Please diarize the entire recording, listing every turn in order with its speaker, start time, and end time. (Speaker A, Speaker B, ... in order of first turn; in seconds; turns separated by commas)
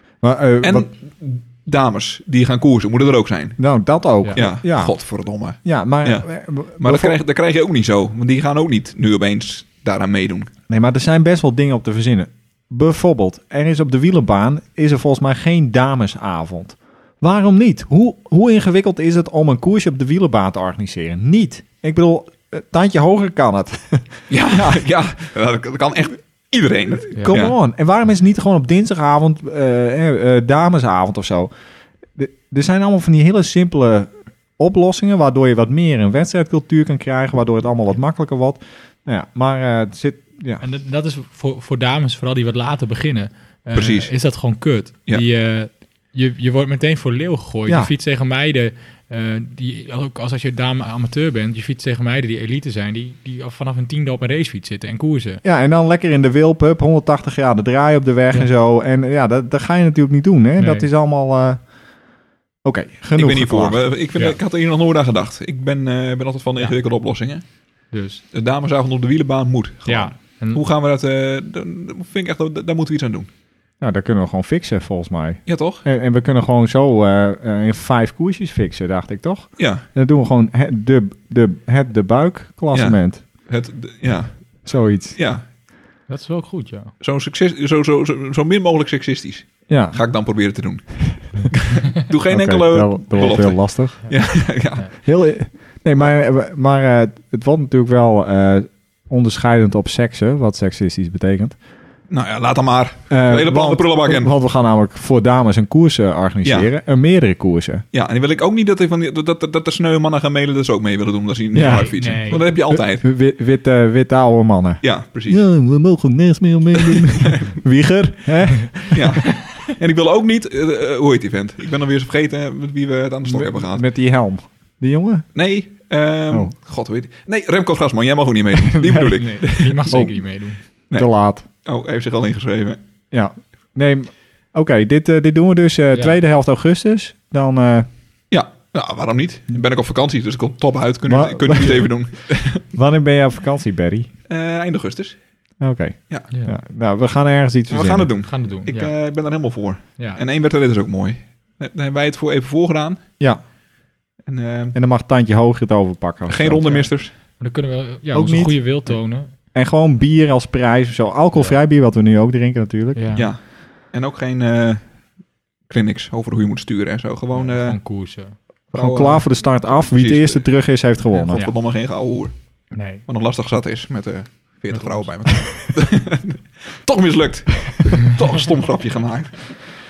Speaker A: 0.2-0.9, Speaker B: 0.6-3.6, Speaker A: 3.6-5.0, Speaker B: 4.3-6.3, Speaker A: 5.6-7.2, Speaker B: 6.8-10.5, Speaker A: 10.7-24.8, Speaker B: 24.3-27.5, Speaker A: 27.1-31.5, Speaker A: 32.1-40.6, Speaker C: 40.6-55.4, Speaker B: 43.7-44.1, Speaker A: 55.4-61.6, Speaker C: 60.6-60.9, Speaker A: 62.6-63.8, Speaker B: 63.1-67.4, Speaker C: 67.9-68.2, Speaker B: 68.3-73.3, Speaker C: 69.9-70.6, Speaker A: 73.8-83.2, Speaker B: 75.5-75.8, Speaker B: 79.6-79.8, Speaker B: 82.7-84.6, Speaker A: 84.7-85.2, Speaker B: 85.1-85.4, Speaker C: 86.1-86.9, Speaker B: 87.0-94.9, Speaker A: 89.7-90.0, Speaker A: 92.3-94.1, Speaker A: 95.0-101.5, Speaker B: 102.1-104.3, Speaker A: 103.1-107.8, Speaker B: 107.9-113.0, Speaker A: 111.5-111.9, Speaker C: 111.6-112.4, Speaker A: 112.7-119.2, Speaker B: 114.8-115.4, Speaker B: 116.8-117.5, Speaker B: 118.9-123.8, Speaker A: 123.2-125.3, Speaker B: 125.3-130.1, Speaker A: 128.7-129.1, Speaker C: 129.1-130.6, Speaker A: 130.9-131.4, Speaker B: 131.6-132.8, Speaker A: 133.1-137.9, Speaker B: 138.3-142.6, Speaker A: 141.1-141.9, Speaker A: 142.7-144.1, Speaker B: 144.3-145.2, Speaker A: 145.6-148.1, Speaker B: 147.7-153.0, Speaker C: 148.2-148.9, Speaker B: 154.2-154.7, Speaker A: 154.7-156.9, Speaker B: 156.3-157.1, Speaker C: 157.4-159.3, Speaker A: 158.1-158.8, Speaker A: 159.5-163.0, Speaker C: 162.9-163.3, Speaker B: 163.9-164.8, Speaker B: 165.7-167.8, Speaker C: 167.3-168.3, Speaker B: 168.7-169.3, Speaker A: 168.7-171.4, Speaker B: 169.9-170.4, Speaker B: 171.2-172.3, Speaker C: 172.7-173.0, Speaker B: 173.1-179.6, Speaker C: 174.7-175.1